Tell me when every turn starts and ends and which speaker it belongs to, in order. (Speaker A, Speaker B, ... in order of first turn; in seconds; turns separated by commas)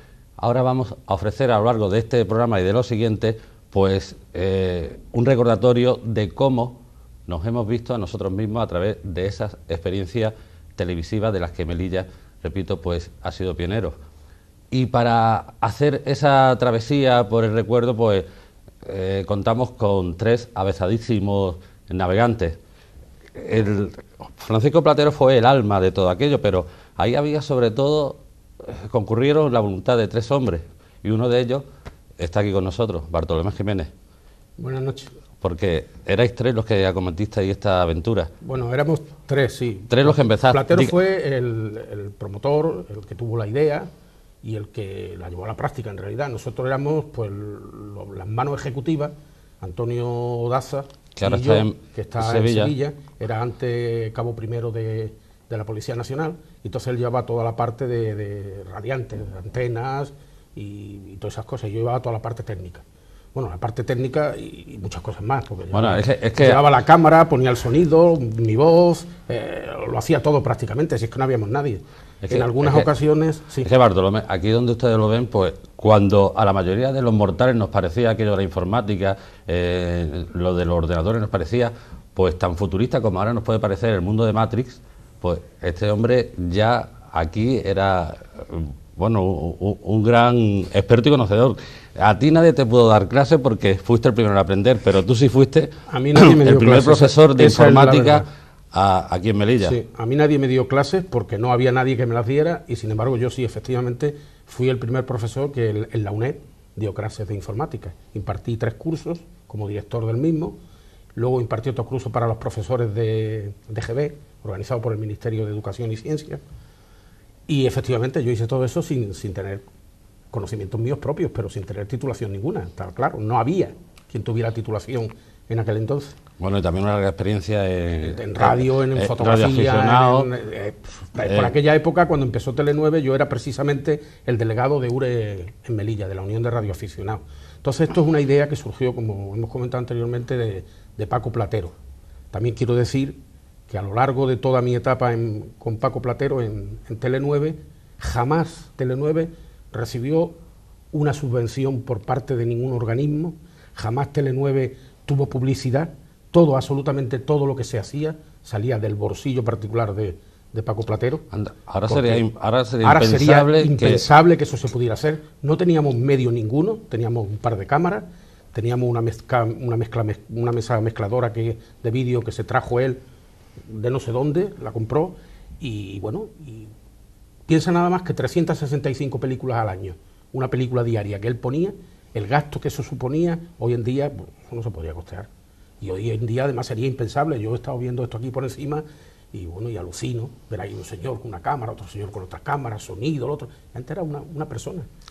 Speaker A: 0.4-14.0, Speaker A: 14.7-18.2, Speaker A: 18.9-22.6, Speaker A: 23.3-31.6, Speaker A: 32.2-33.9, Speaker B: 34.6-35.1, Speaker A: 35.4-38.3, Speaker B: 38.4-43.9, Speaker A: 39.9-40.9, Speaker B: 44.4-73.7, Speaker A: 51.2-52.7, Speaker A: 65.7-66.6, Speaker A: 72.2-72.9, Speaker A: 73.6-99.8, Speaker B: 95.9-98.2, Speaker B: 99.6-110.6, Speaker B: 111.1-116.4, Speaker B: 117.5-119.6, Speaker B: 120.3-126.2, Speaker A: 126.4-130.3, Speaker B: 128.0-141.7, Speaker A: 131.2-131.5, Speaker B: 142.3-150.4, Speaker B: 150.9-161.2, Speaker A: 161.3-164.0, Speaker B: 161.9-162.2, Speaker B: 162.8-173.0, Speaker B: 173.7-176.7, Speaker B: 177.5-185.3, Speaker B: 185.8-194.9